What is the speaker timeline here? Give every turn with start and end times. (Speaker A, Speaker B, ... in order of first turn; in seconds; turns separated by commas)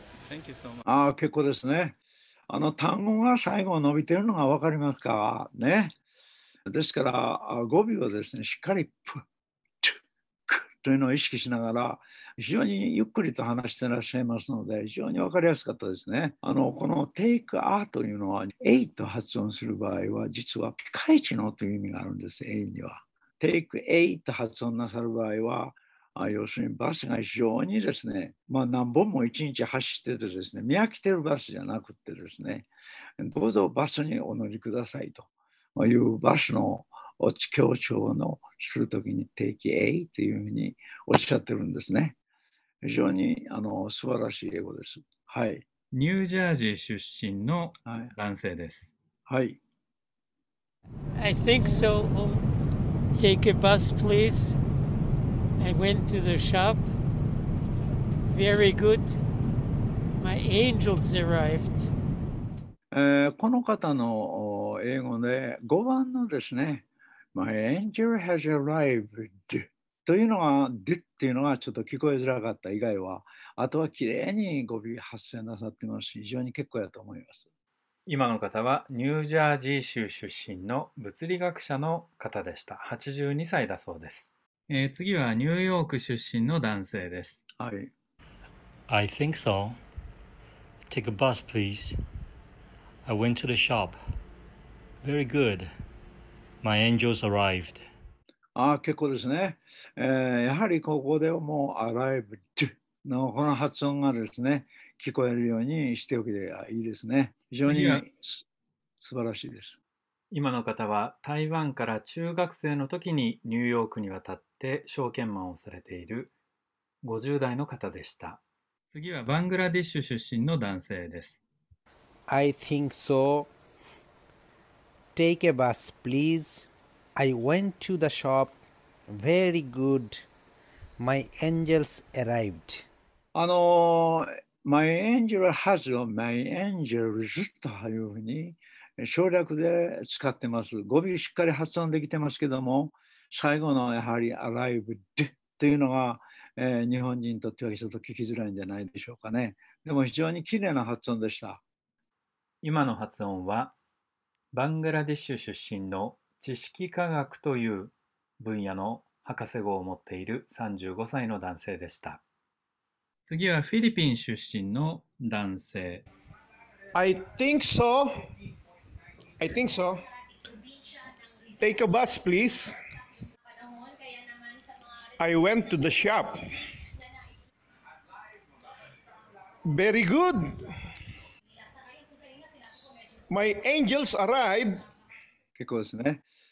Speaker A: 0.2-0.8, Speaker B: 0.9-1.9, Speaker B: 2.5-5.9, Speaker B: 6.7-9.2, Speaker B: 10.5-32.7, Speaker B: 33.2-42.1, Speaker B: 42.8-45.6, Speaker A: 45.9-48.9, Speaker B: 47.9-48.1, Speaker B: 49.3-49.6, Speaker C: 51.2-52.4, Speaker C: 53.1-54.6, Speaker C: 55.6-56.9, Speaker C: 58.3-59.2, Speaker C: 60.2-61.9, Speaker B: 62.9-77.5, Speaker A: 78.1-87.4, Speaker B: 87.6-87.9, Speaker D: 88.9-89.8, Speaker D: 90.9-92.0, Speaker D: 93.1-94.0, Speaker D: 95.0-95.7, Speaker D: 96.6-97.8, Speaker B: 98.6-108.4, Speaker A: 107.6-108.0, Speaker B: 109.0-109.8, Speaker A: 110.3-116.3, Speaker A: 117.0-121.4, Speaker E: 122.3-123.5, Speaker E: 125.2-128.6, Speaker E: 129.1-130.2, Speaker E: 131.0-132.9, Speaker B: 133.3-151.6, Speaker A: 152.6-153.8, Speaker A: 154.5-162.2, Speaker A: 163.2-166.1, Speaker F: 166.9-168.3, Speaker F: 169.4-170.1, Speaker F: 171.6-172.9, Speaker F: 175.2-176.7, Speaker F: 179.7-180.6, Speaker F: 182.9-184.9, Speaker B: 185.6-186.2